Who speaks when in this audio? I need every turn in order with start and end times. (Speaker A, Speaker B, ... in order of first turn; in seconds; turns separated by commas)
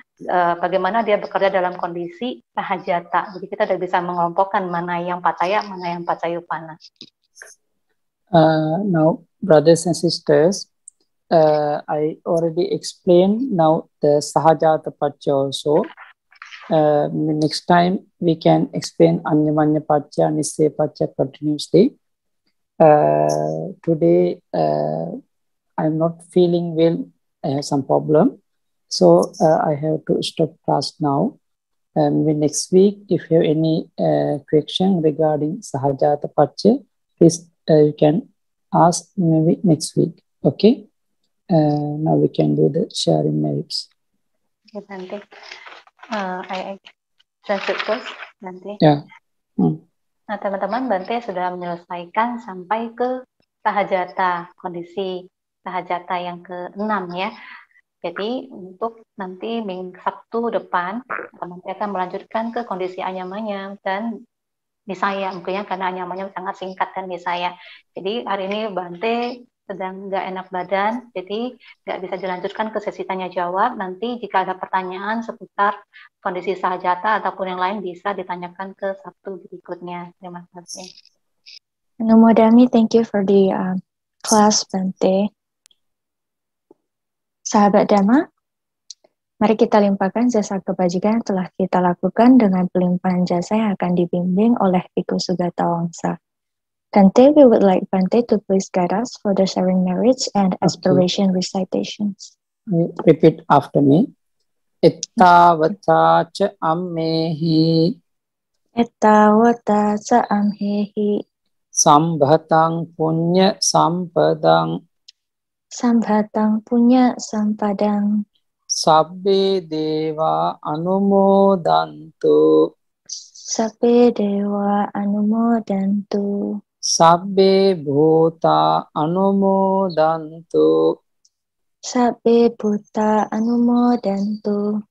Speaker A: 0.3-6.8, Speaker B: 8.3-10.7, Speaker B: 11.3-15.9, Speaker B: 16.7-21.9, Speaker B: 22.8-25.2, Speaker B: 25.8-28.4, Speaker B: 28.9-31.4, Speaker B: 32.0-38.2, Speaker B: 38.8-40.8, Speaker B: 41.5-43.9, Speaker A: 44.8-45.2, Speaker A: 46.1-46.8, Speaker A: 47.5-48.8, Speaker A: 50.3-53.1, Speaker A: 53.7-57.3, Speaker A: 58.0-64.1, Speaker A: 64.9-69.2, Speaker A: 69.7-80.9, Speaker C: 82.1-85.2, Speaker C: 87.5-88.2, Speaker C: 89.4-96.2, Speaker C: 97.0-102.3, Speaker B: 100.7-101.0, Speaker B: 102.7-104.1, Speaker B: 104.8-107.9, Speaker C: 108.8-111.2, Speaker B: 111.8-114.7, Speaker C: 115.8-118.1, Speaker B: 118.8-122.4, Speaker C: 123.5-126.2, Speaker B: 127.0-130.7, Speaker C: 131.9-134.6